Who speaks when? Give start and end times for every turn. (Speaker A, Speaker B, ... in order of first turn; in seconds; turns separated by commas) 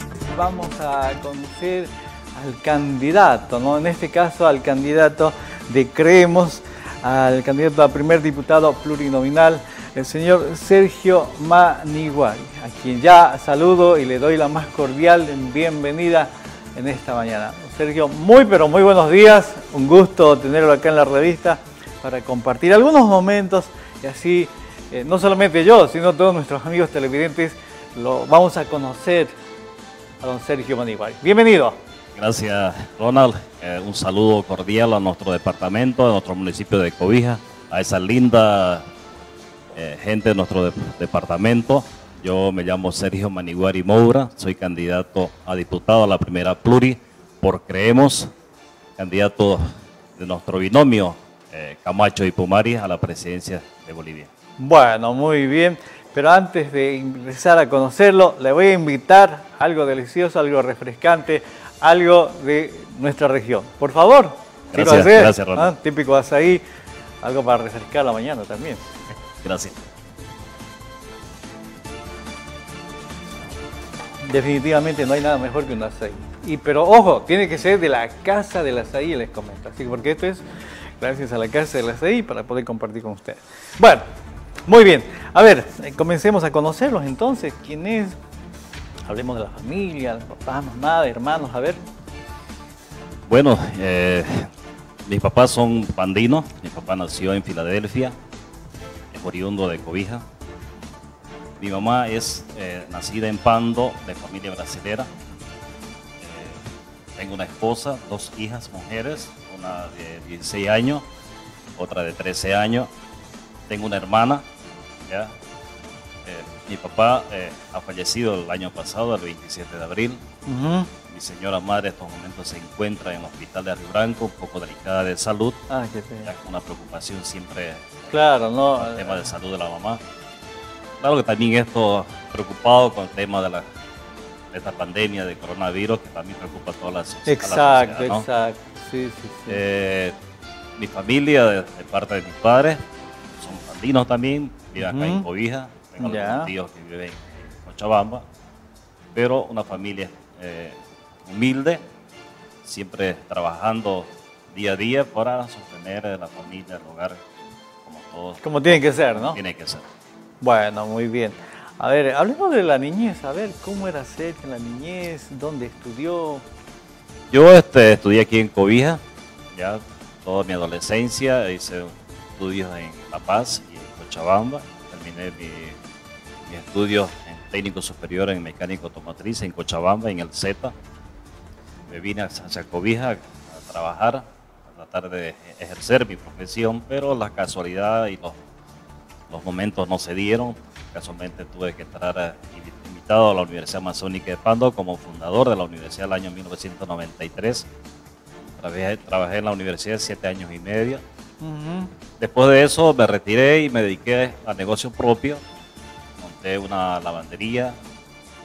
Speaker A: 0.2-29.3, Speaker A: 30.2-31.8, Speaker B: 32.2-38.8, Speaker B: 39.8-48.3, Speaker B: 49.0-49.6, Speaker B: 50.2-54.3, Speaker A: 54.6-66.6, Speaker B: 64.7-65.7, Speaker A: 67.2-68.8, Speaker B: 69.4-69.8, Speaker A: 74.2-80.4, Speaker A: 81.0-84.1, Speaker A: 84.7-88.2, Speaker A: 89.1-91.8, Speaker B: 93.3-94.5, Speaker B: 95.1-98.2, Speaker B: 99.1-100.2, Speaker B: 101.6-105.1, Speaker B: 106.2-106.6, Speaker B: 107.2-111.0, Speaker B: 111.8-112.9, Speaker B: 113.7-114.4, Speaker B: 116.2-120.2, Speaker A: 120.5-120.9, Speaker B: 121.1-125.6, Speaker A: 125.7-126.3, Speaker B: 126.2-128.1, Speaker A: 128.1-129.3, Speaker B: 128.8-130.0, Speaker B: 131.0-133.6, Speaker B: 134.5-138.2, Speaker A: 137.3-139.6, Speaker B: 139.5-140.1, Speaker B: 140.8-142.8, Speaker B: 143.4-148.2, Speaker A: 144.8-145.2, Speaker A: 146.0-146.5, Speaker B: 149.1-151.8, Speaker B: 152.6-157.2, Speaker B: 157.8-159.8, Speaker A: 158.4-159.4, Speaker A: 160.4-166.4, Speaker B: 167.3-169.0, Speaker B: 169.5-175.8, Speaker B: 176.5-180.7, Speaker B: 181.9-188.4, Speaker B: 189.3-197.7, Speaker B: 198.6-201.0, Speaker A: 201.4-201.9, Speaker B: 202.2-205.4, Speaker B: 206.2-207.8